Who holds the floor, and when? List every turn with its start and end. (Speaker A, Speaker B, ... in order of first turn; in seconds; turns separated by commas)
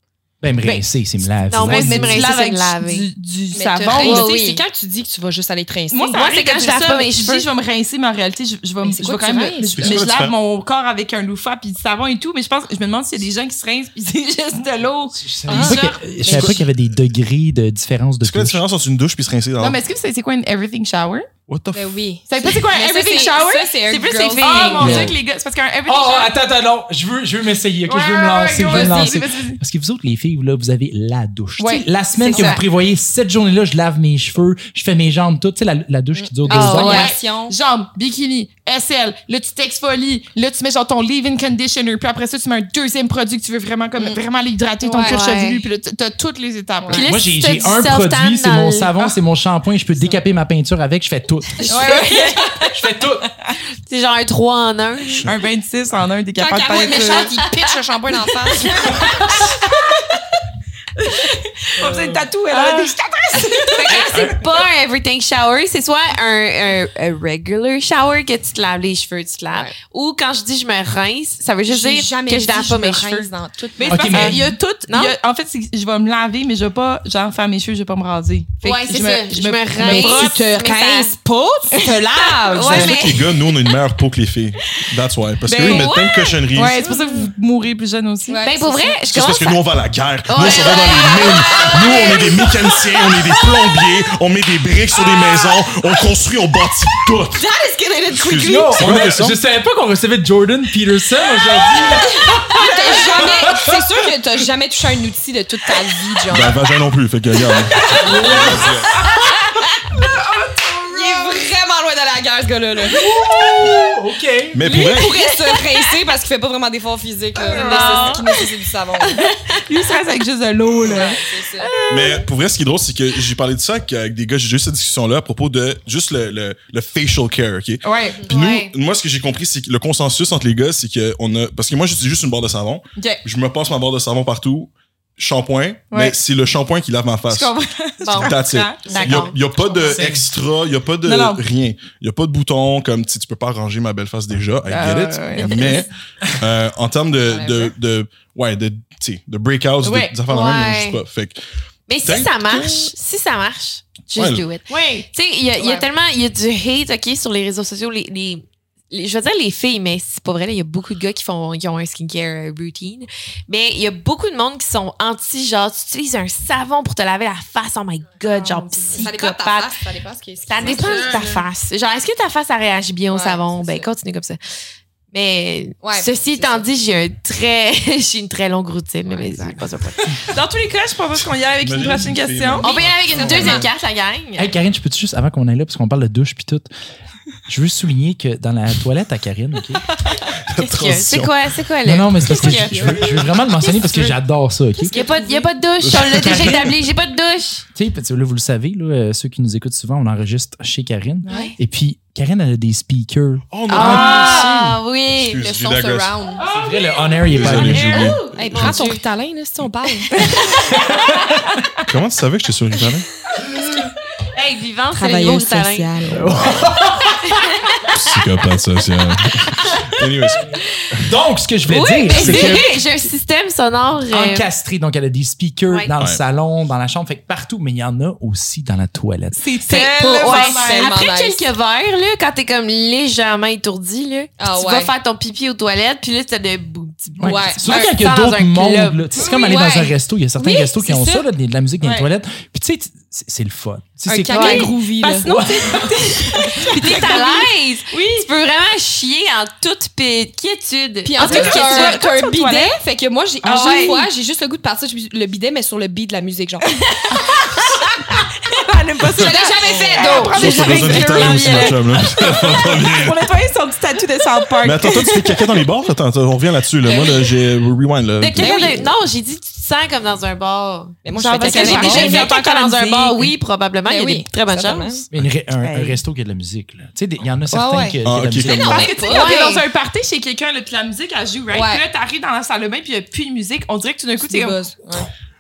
Speaker A: 0.4-2.3, Speaker B: 1.4-3.1, Speaker C: 1.6-4.3, Speaker D: 3.5-6.3, Speaker B: 3.8-4.6, Speaker C: 5.9-16.6, Speaker B: 6.2-7.5, Speaker D: 8.8-10.0, Speaker E: 9.8-10.3, Speaker A: 15.1-18.6, Speaker D: 15.5-15.9, Speaker E: 16.3-16.8, Speaker E: 18.2-19.8, Speaker C: 19.6-21.3, Speaker E: 21.5-21.9, Speaker D: 21.7-25.2, Speaker C: 22.3-26.3, Speaker B: 24.4-24.8, Speaker A: 24.6-25.2, Speaker A: 25.9-37.1, Speaker C: 27.9-29.6, Speaker D: 28.6-29.2, Speaker C: 31.6-32.5, Speaker B: 32.2-32.6, Speaker D: 32.3-32.6, Speaker D: 36.2-37.5, Speaker B: 36.5-37.1, Speaker C: 36.7-47.1, Speaker D: 44.9-45.2, Speaker B: 44.9-45.6, Speaker B: 46.9-48.9, Speaker A: 47.1-51.7, Speaker B: 51.6-52.7, Speaker D: 51.7-52.5, Speaker C: 51.7-52.5, Speaker A: 52.7-53.3, Speaker B: 53.9-55.3, Speaker E: 55.0-55.3, Speaker C: 55.2-57.4, Speaker D: 56.4-59.7, Speaker B: 57.0-57.7, Speaker C: 58.9-59.8, Speaker A: 59.0-59.4, Speaker C: 61.0-64.2, Speaker D: 61.8-62.9, Speaker D: 63.5-64.5, Speaker A: 63.9-64.4, Speaker B: 63.9-73.3, Speaker D: 71.7-74.3, Speaker C: 73.8-80.5, Speaker A: 73.9-74.6, Speaker B: 74.1-75.2, Speaker B: 78.6-81.1, Speaker D: 79.8-83.1, Speaker C: 81.7-83.0, Speaker B: 82.5-83.3, Speaker E: 82.7-86.8, Speaker C: 85.5-85.9, Speaker B: 85.6-87.0, Speaker D: 85.7-86.0, Speaker C: 86.5-88.7, Speaker D: 88.3-88.9, Speaker B: 88.4-89.6, Speaker E: 89.1-97.4, Speaker B: 90.3-93.4, Speaker D: 90.5-92.0, Speaker D: 97.3-98.8, Speaker E: 98.1-99.4, Speaker A: 98.4-102.5, Speaker D: 102.2-106.6, Speaker C: 102.5-102.8, Speaker E: 106.3-109.0, Speaker D: 107.7-108.4, Speaker C: 107.7-108.2, Speaker A: 107.9-108.7, Speaker C: 109.0-109.2, Speaker C: 109.9-111.4, Speaker D: 110.8-113.0, Speaker A: 112.9-114.6, Speaker E: 114.5-115.2, Speaker D: 114.6-119.3, Speaker B: 114.9-115.8, Speaker C: 117.4-118.4, Speaker B: 117.4-118.2, Speaker C: 119.0-122.3, Speaker B: 120.9-121.2, Speaker D: 120.9-121.7, Speaker E: 121.9-137.5, Speaker C: 127.8-128.3, Speaker B: 128.3-128.7, Speaker C: 133.0-133.2, Speaker C: 135.9-136.2, Speaker C: 137.3-140.0, Speaker B: 138.1-139.4, Speaker E: 138.2-151.4, Speaker A: 139.9-140.2, Speaker C: 141.0-141.4, Speaker C: 144.7-145.8, Speaker D: 145.4-145.9, Speaker D: 147.3-147.7, Speaker C: 149.8-150.2, Speaker B: 150.3-151.0, Speaker B: 151.9-169.7, Speaker E: 152.0-152.9, Speaker E: 154.2-154.5, Speaker C: 154.7-155.1, Speaker D: 155.6-155.9, Speaker C: 168.2-169.0, Speaker D: 168.9-171.2, Speaker B: 170.5-174.4, Speaker C: 170.6-171.5, Speaker D: 173.1-173.9, Speaker B: 175.1-180.2, Speaker D: 175.8-176.7, Speaker D: 179.1-179.6, Speaker C: 180.1-182.8, Speaker E: 181.6-183.7, Speaker B: 182.6-184.5, Speaker D: 183.0-183.7, Speaker A: 184.4-186.7, Speaker A: 187.5-189.8, Speaker E: 190.5-191.3, Speaker B: 190.6-194.2, Speaker A: 191.8-195.0, Speaker E: 192.5-193.0, Speaker B: 194.8-197.7, Speaker D: 194.9-195.2, Speaker C: 194.9-195.5, Speaker E: 195.8-196.7, Speaker A: 196.1-196.7, Speaker A: 197.8-204.3, Speaker C: 201.2-201.6, Speaker B: 201.3-201.6, Speaker E: 203.5-206.1, Speaker B: 203.7-205.4, Speaker C: 203.8-204.3, Speaker D: 205.3-206.4, Speaker C: 206.4-208.3, Speaker A: 206.5-208.1, Speaker E: 207.3-208.8, Speaker B: 207.4-209.0, Speaker D: 208.3-210.2, Speaker C: 210.1-210.5, Speaker A: 210.3-211.6, Speaker E: 211.8-213.1, Speaker B: 214.3-215.9, Speaker D: 214.9-216.3, Speaker A: 216.1-217.4, Speaker E: 217.9-220.9, Speaker A: 221.1-222.8, Speaker B: 221.7-224.5, Speaker E: 222.2-222.6, Speaker A: 224.1-229.6, Speaker C: 229.3-231.0, Speaker B: 229.7-239.3, Speaker D: 229.7-231.5, Speaker D: 234.4-234.9, Speaker A: 237.2-246.0, Speaker D: 237.2-237.9, Speaker C: 239.2-239.6, Speaker D: 239.2-241.3, Speaker C: 241.8-242.1, Speaker D: 244.1-245.3, Speaker B: 244.3-244.7, Speaker C: 244.5-248.2, Speaker B: 246.5-252.1, Speaker D: 246.9-247.2, Speaker D: 251.0-256.8, Speaker C: 251.2-252.8, Speaker C: 253.4-254.0, Speaker B: 253.5-254.0, Speaker C: 256.6-257.6, Speaker C: 258.4-265.5, Speaker D: 259.2-261.3, Speaker B: 259.4-261.3, Speaker E: 260.3-263.3, Speaker E: 264.6-268.9, Speaker B: 266.9-267.1, Speaker B: 268.2-275.1, Speaker D: 268.4-268.9, Speaker D: 271.1-272.4, Speaker C: 271.1-273.3, Speaker D: 273.9-275.1, Speaker A: 275.1-278.9, Speaker C: 275.6-276.0, Speaker D: 277.5-279.5, Speaker E: 278.1-278.9, Speaker C: 278.6-284.6, Speaker B: 278.8-279.7, Speaker D: 281.5-281.8, Speaker D: 284.2-285.1